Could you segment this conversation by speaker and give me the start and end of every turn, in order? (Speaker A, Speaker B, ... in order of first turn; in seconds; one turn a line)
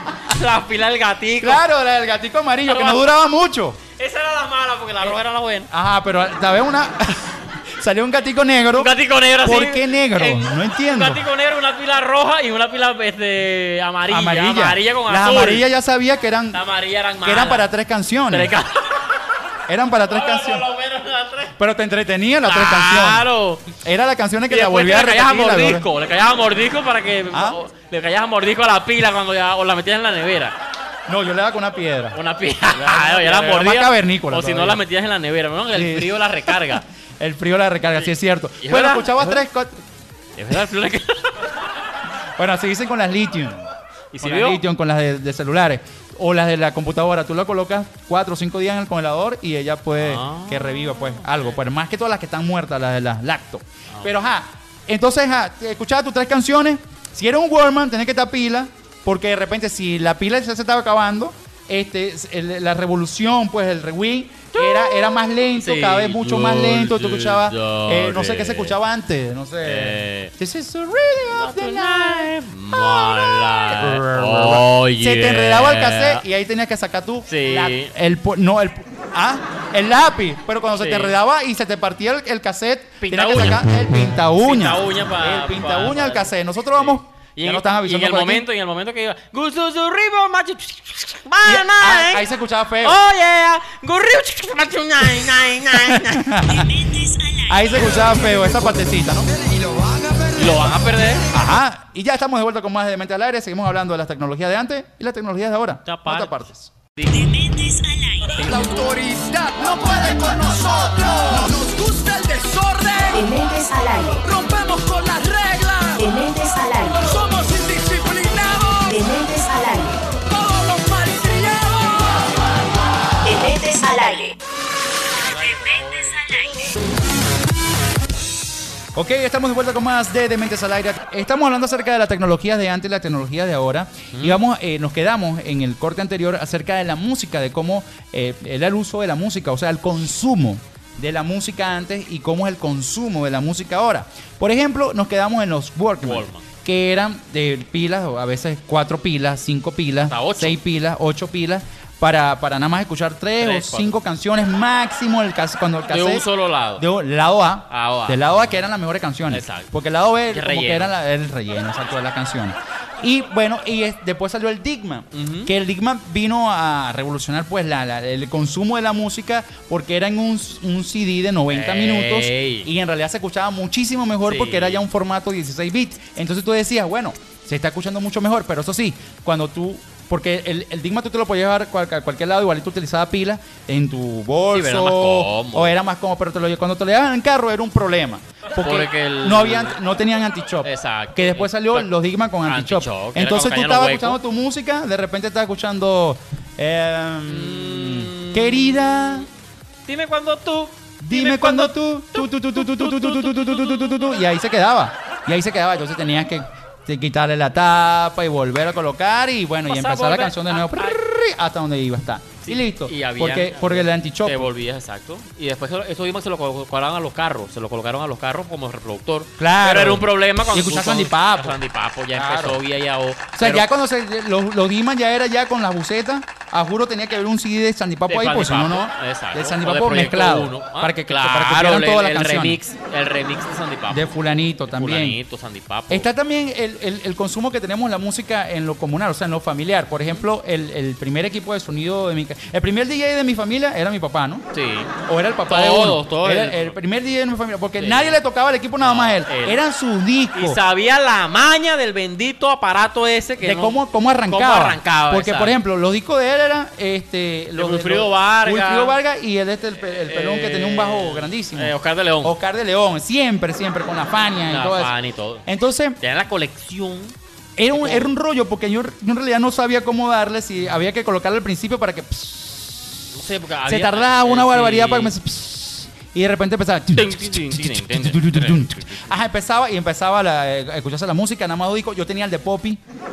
Speaker A: 0.2-1.6
Speaker B: 1.4-3.8
Speaker A: 2.6-3.1
Speaker A: 4.0-5.7
Speaker B: 5.7-11.2
Speaker A: 8.8-15.7
Speaker B: 14.1-16.6
Speaker A: 16.5-17.7
Speaker B: 17.2-18.5
Speaker A: 18.3-19.2
Speaker B: 19.7-20.7
Speaker A: 20.1-21.5
Speaker B: 21.6-25.9
Speaker A: 22.4-23.7
Speaker A: 24.5-30.6
Speaker B: 27.3-27.6
Speaker B: 31.1-32.2
Speaker A: 32.1-36.8
Speaker B: 32.7-34.8
Speaker B: 35.7-39.8
Speaker A: 38.6-39.4
Speaker A: 40.4-41.5
Speaker B: 42.4-88.5
Speaker A: 44.1-44.6
Speaker A: 50.0-51.5
Speaker A: 64.5-68.8
Speaker A: 69.6-70.3
Speaker A: 71.3-76.2
Speaker A: 77.3-77.9
Speaker A: 80.8-81.2
Speaker A: 83.0-83.7
Speaker A: 84.4-92.2
Speaker B: 91.4-93.0
Speaker A: 92.8-96.9
Speaker B: 95.7-96.7
Speaker C: 96.9-97.5
Speaker B: 97.5-99.3
Speaker D: 97.7-101.5
Speaker A: 97.7-98.0
Speaker A: 100.4-101.3
Speaker B: 101.3-106.7
Speaker A: 105.8-106.3
Speaker C: 107.0-108.7
Speaker D: 108.4-113.2
Speaker C: 113.1-114.2
Speaker D: 114.2-116.0
Speaker C: 116.0-117.1
Speaker D: 117.0-119.0
Speaker C: 118.9-120.1
Speaker D: 120.2-122.3
Speaker C: 123.2-124.4
Speaker A: 125.2-126.2
Speaker C: 125.2-126.7
Speaker B: 128.9-156.2
Speaker A: 134.1-134.4
Speaker A: 146.0-146.4
Speaker A: 150.0-150.6
Speaker A: 153.4-154.0
Speaker A: 155.9-156.8
Speaker B: 156.8-199.2
Speaker A: 157.7-158.6
Speaker A: 159.3-159.7
Speaker A: 160.3-160.9
Speaker A: 165.1-165.5
Speaker A: 171.5-172.7
Speaker A: 174.2-174.8
Speaker A: 184.5-185.8
Speaker A: 188.6-189.8
Speaker A: 190.6-191.9
Speaker A: 192.4-194.2
Speaker A: 197.2-199.3
Speaker A: 199.8-204.1
Speaker B: 201.0-214.5
Speaker A: 209.7-211.0
Speaker A: 212.4-223.7
Speaker B: 219.4-221.6
Speaker B: 222.1-222.6
Speaker B: 223.3-232.6
Speaker A: 228.1-234.1
Speaker B: 233.9-235.2
Speaker A: 234.7-236.1
Speaker B: 235.9-244.4
Speaker A: 244.5-244.9
Speaker B: 245.0-250.6
Speaker A: 245.5-246.8
Speaker A: 247.8-248.2
Speaker A: 248.8-249.6
Speaker A: 250.3-255.6
Speaker B: 253.4-264.9
Speaker A: 257.5-259.0
Speaker A: 259.8-262.4
Speaker A: 264.5-265.4
Speaker B: 265.4-266.0
Speaker A: 266.0-267.1
Speaker B: 267.6-273.1
Speaker A: 267.7-268.1
Speaker A: 273.1-275.1
Speaker B: 273.6-282.8
Speaker A: 276.9-279.1